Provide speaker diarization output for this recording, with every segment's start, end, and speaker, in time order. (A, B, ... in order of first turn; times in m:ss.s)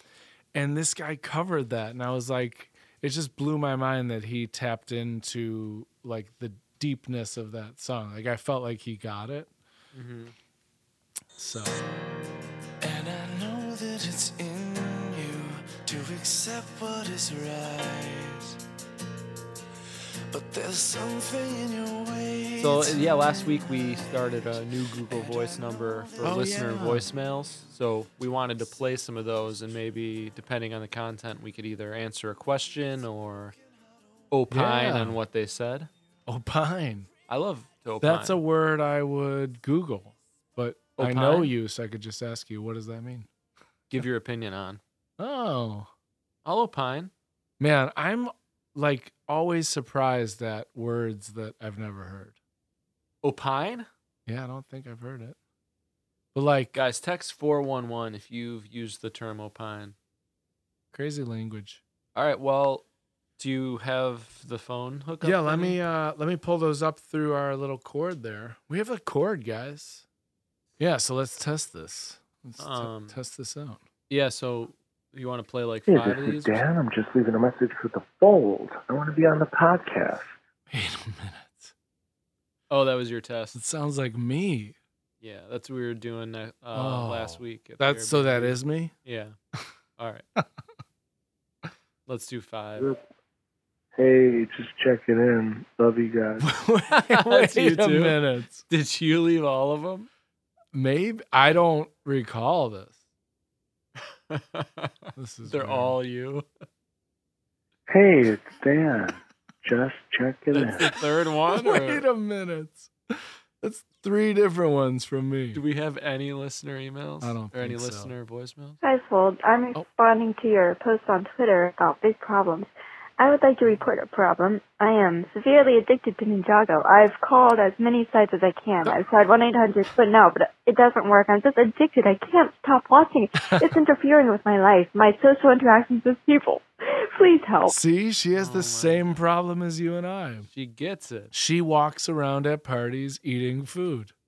0:00.5-0:09.5 A
0:09.9-0:10.3 B
0:11.4-0:11.8 A
0:12.8-0:18.6 C
0:20.3-0:23.0 C
0:22.6-0:33.6 B
0:24.9-0:26.6 C
0:26.2-0:27.1 A
0:34.3-0:35.9 B
0:34.5-0:35.2 A
0:36.3-0:37.1 A
0:37.3-0:38.4 B
0:38.0-0:43.3 A
0:41.0-0:41.5 B
0:43.9-0:44.8 B
0:45.2-0:45.9 A
0:46.4-0:47.1 B
0:47.6-0:52.4 A
0:53.2-0:53.9 B
0:54.3-0:55.4 A
0:56.3-0:56.8 A
0:56.7-1:00.0 B
1:00.9-1:01.8 A
1:02.1-1:02.8 B
1:03.4-1:05.8 B
1:05.2-1:10.0 A
1:10.8-1:13.8 A
1:12.6-1:13.2 B
1:14.1-1:16.6 B
1:15.9-1:20.3 D
1:20.7-1:21.7 A
1:22.7-1:23.6 B
1:23.5-1:24.8 A
1:25.2-1:29.4 B
1:26.7-1:28.9 A
1:30.0-1:30.3 B
1:32.1-1:32.9 B
1:33.9-1:36.5 D
1:36.4-1:38.6 A
1:36.9-1:40.1 B
1:40.7-1:43.0 A
1:44.0-1:46.5 B
1:45.2-1:46.0 A
1:47.9-1:50.9 D
1:50.5-1:52.0 B
1:51.5-1:52.9 A
1:53.6-1:55.6 A
1:55.5-1:58.8 B
1:57.2-1:58.1 A
1:58.8-2:17.8 E
2:13.4-2:13.8 A
2:17.6-2:20.5 A
2:18.3-2:19.2 B
2:20.5-2:21.3 B
2:21.3-2:24.1 A